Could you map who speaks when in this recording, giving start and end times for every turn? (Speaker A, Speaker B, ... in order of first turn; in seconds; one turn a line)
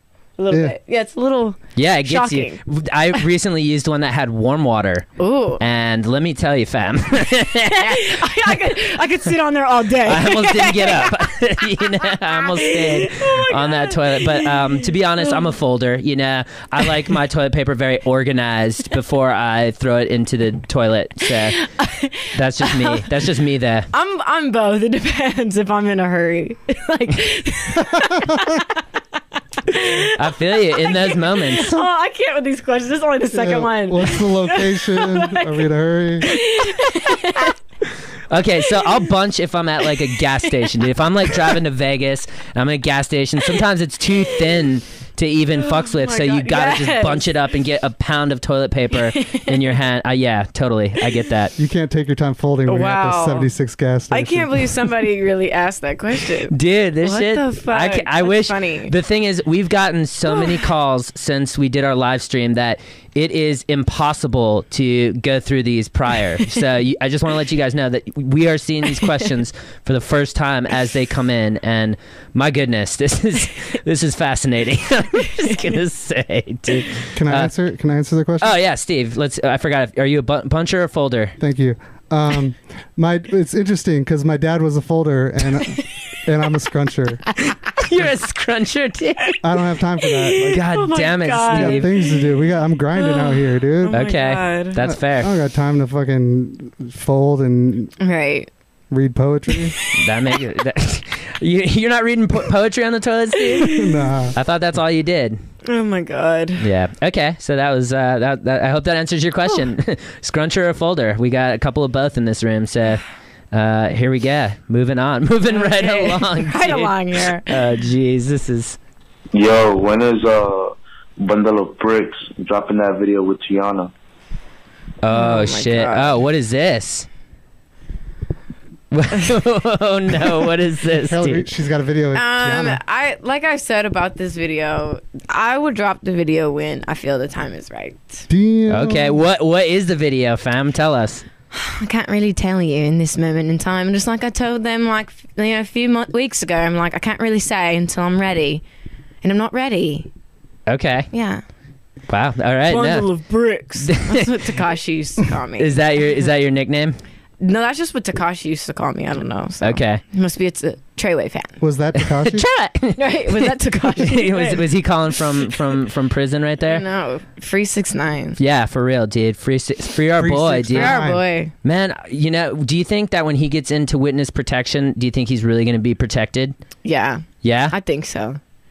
Speaker A: 0.4-2.6
Speaker B: 0.5-0.8
Speaker C: 1.8-5.1
Speaker A: 5.2-5.6
Speaker C: 5.6-8.5
Speaker A: 7.7-14.7
Speaker C: 10.1-21.6
Speaker A: 21.5-23.1
Speaker C: 22.3-23.9
Speaker A: 23.9-28.8
Speaker B: 27.8-28.6
Speaker A: 29.7-30.2
Speaker C: 30.2-31.8
Speaker A: 30.7-35.5
Speaker B: 33.3-36.4
Speaker A: 36.2-37.5
Speaker C: 38.3-51.5
Speaker A: 45.6-47.3
Speaker A: 49.1-49.6
Speaker B: 51.6-54.8
Speaker A: 52.7-53.5
Speaker A: 54.1-58.9
Speaker C: 56.5-77.5
Speaker B: 77.2-78.6
Speaker C: 78.4-81.3
Speaker B: 81.4-87.2
Speaker C: 87.8-89.4
Speaker B: 89.4-90.7
Speaker A: 90.0-92.2
Speaker C: 90.5-91.9
Speaker B: 91.5-94.0
Speaker A: 93.0-94.8
Speaker C: 93.9-95.3
Speaker B: 94.8-97.9
Speaker A: 98.0-98.5
Speaker B: 98.9-99.8
Speaker C: 99.9-103.8
Speaker A: 103.4-104.0
Speaker B: 103.7-104.4
Speaker C: 104.3-105.4
Speaker A: 105.7-106.7
Speaker C: 106.6-118.8
Speaker A: 115.5-117.5
Speaker D: 119.3-123.9
Speaker C: 125.0-127.1
Speaker A: 125.1-126.2
Speaker C: 128.9-131.5
Speaker B: 131.1-132.8
Speaker A: 132.2-138.2
Speaker B: 138.3-139.2
Speaker C: 138.7-141.2
Speaker A: 141.5-148.6
Speaker A: 149.2-150.1
Speaker C: 150.7-151.1
Speaker A: 151.1-151.4
Speaker C: 152.1-153.1
Speaker A: 152.7-155.8
Speaker C: 153.8-154.3
Speaker C: 155.6-157.0
Speaker A: 157.4-161.6
Speaker C: 159.6-160.0
Speaker B: 161.6-162.5
Speaker C: 162.0-166.8
Speaker A: 163.0-164.6
Speaker A: 166.7-168.4
Speaker C: 168.4-171.0
Speaker B: 170.2-171.2
Speaker A: 170.7-171.5
Speaker C: 171.6-176.6
Speaker A: 176.8-178.4
Speaker C: 177.4-177.8